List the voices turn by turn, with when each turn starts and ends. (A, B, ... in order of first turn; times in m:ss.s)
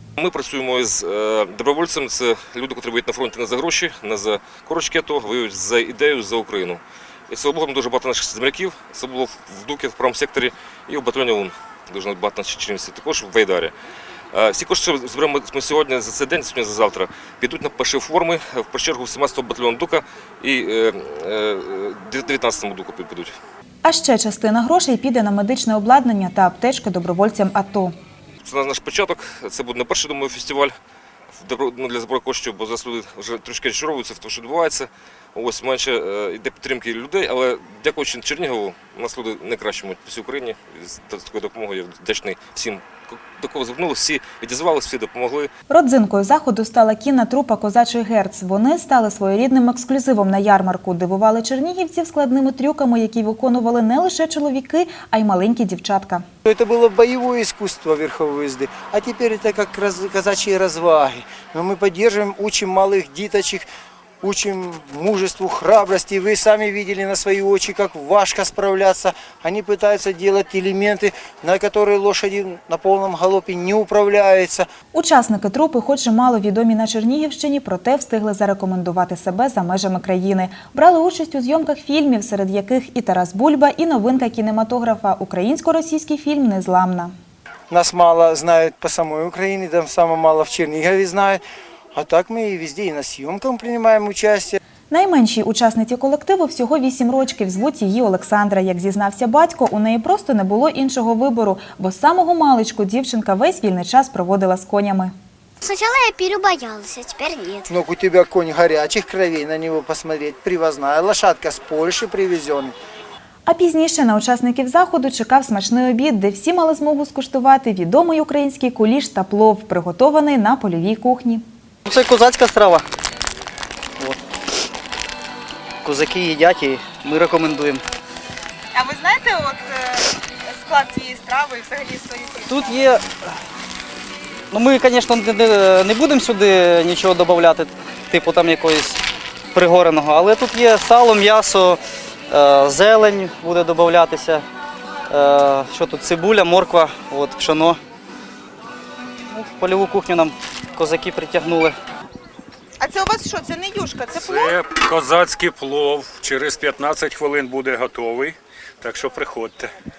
0:00.2-0:13.7 A
0:14.3-0:23.3 A
0:23.8-0:27.9 B
0:28.4-0:30.7 A
0:31.3-0:45.5 A
0:45.7-0:56.2 B
0:56.4-1:03.6 C
1:04.2-1:14.6 C
1:14.9-1:27.1 B
1:27.7-1:31.4 C
1:31.9-1:34.6 C
1:34.9-1:45.1 B
1:45.6-1:47.7 D
1:47.7-1:52.7 C
1:53.4-2:01.4 B
2:01.8-2:02.8 E
2:05.8-2:07.8 E
2:08.7-2:12.9 F
2:12.4-2:13.2 E
2:14.5-2:19.0 E
2:19.5-2:24.4 E
2:25.1-2:27.8 E
2:29.3-2:31.8 E
2:32.8-2:34.6 F
2:34.1-2:39.7 G